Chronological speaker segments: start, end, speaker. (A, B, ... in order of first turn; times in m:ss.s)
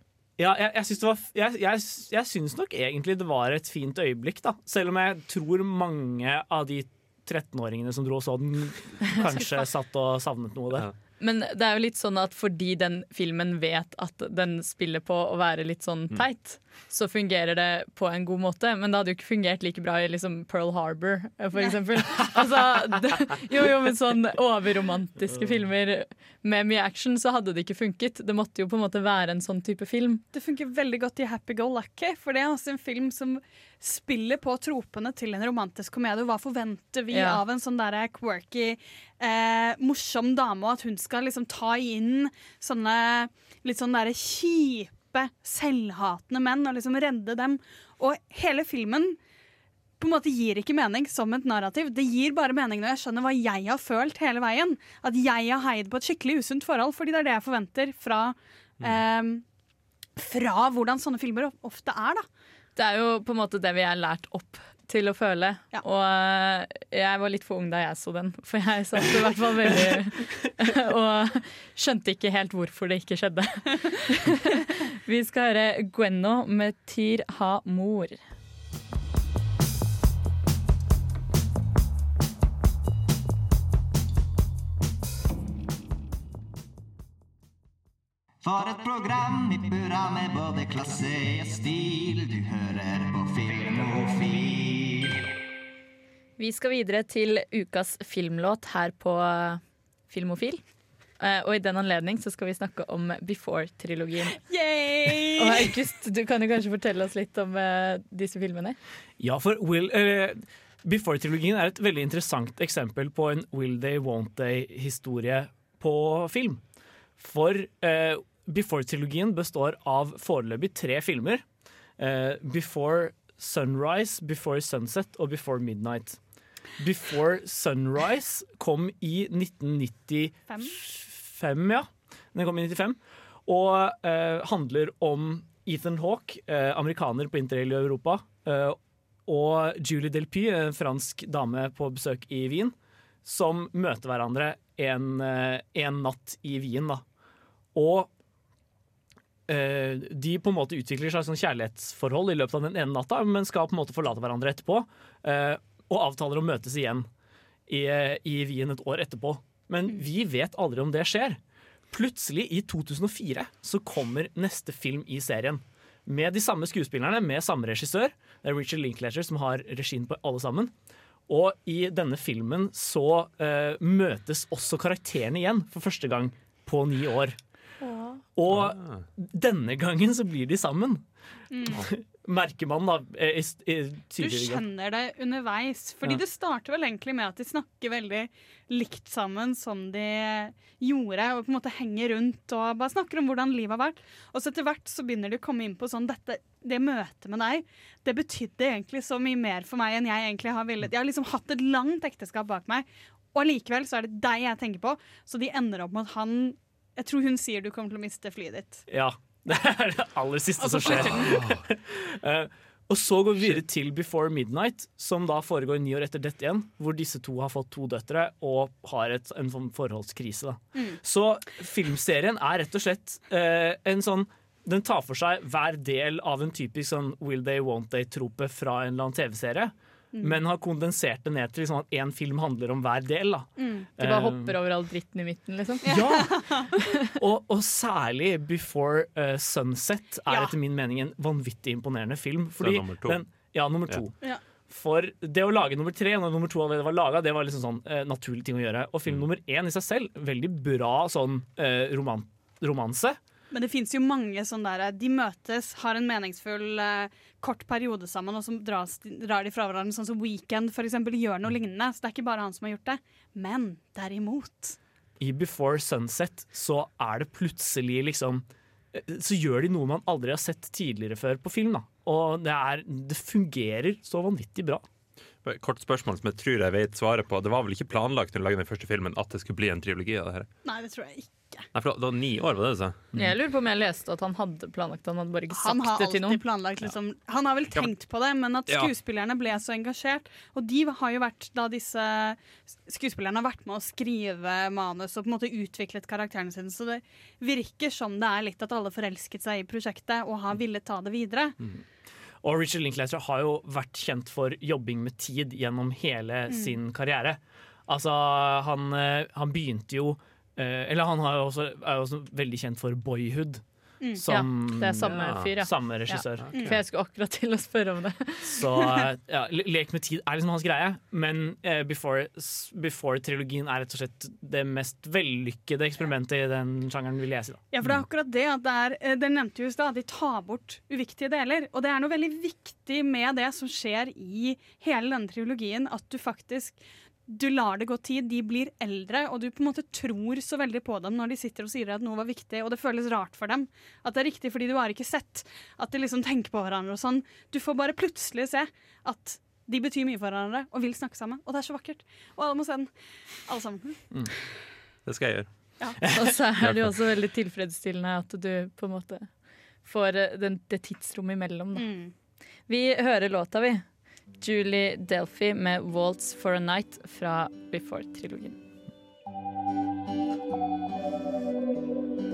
0:00.4-0:10.9 A
0:09.2-0:09.6 B
0:11.2-0:30.2 C
0:30.3-0:49.2 B
0:37.1-0:37.4 C
0:50.0-0:59.4 B
1:00.2-1:02.2 B
1:02.8-1:18.2 C
1:28.4-1:35.2 D
1:36.4-1:40.6 C
1:41.2-1:44.4 C
1:44.3-1:45.7 B
1:45.4-1:48.8 C
1:49.2-1:56.6 A
1:57.2-2:01.4 A
2:02.0-2:06.2 A
2:06.8-2:22.7 A
2:10.5-2:10.8 B
2:23.2-2:27.0 A
2:27.7-2:28.1 A
2:29.5-2:37.1 A
2:37.7-2:41.4 A
2:41.9-2:50.7 A
2:51.3-2:57.4 A
2:57.8-2:58.2 B
2:58.3-3:01.0 A
2:58.5-2:59.0 E
3:01.5-3:01.8 B
3:01.6-3:04.6 A
3:04.2-3:28.8 B
3:28.9-3:54.6 A
3:30.6-3:31.4 B
3:31.1-3:31.6 E
3:50.1-3:50.4 B
3:53.6-3:53.9 B
3:54.0-3:56.2 C
3:55.8-3:56.4 A
3:55.8-3:56.7 B
3:57.1-4:04.2 A
4:02.6-4:03.2 E
4:04.7-4:13.2 A
4:13.5-4:24.8 B
4:25.2-4:34.8 A
4:35.4-4:40.5 E
4:40.6-4:41.7 B
4:41.7-4:43.1 E
4:43.1-4:46.4 C
4:45.5-5:01.6 B
5:02.4-5:13.6 A
5:06.5-5:06.8 B
5:14.1-5:16.4 A
5:14.3-5:18.6 C
5:16.4-5:16.8 E
5:18.4-5:27.6 A
5:27.7-5:52.9 B
5:53.5-5:54.0 B
5:55.0-5:55.5 E
5:56.0-5:56.3 A
5:56.1-5:59.3 C
5:59.8-6:01.8 C
6:01.7-6:02.1 B
6:02.7-6:03.8 C
6:04.4-6:08.6 C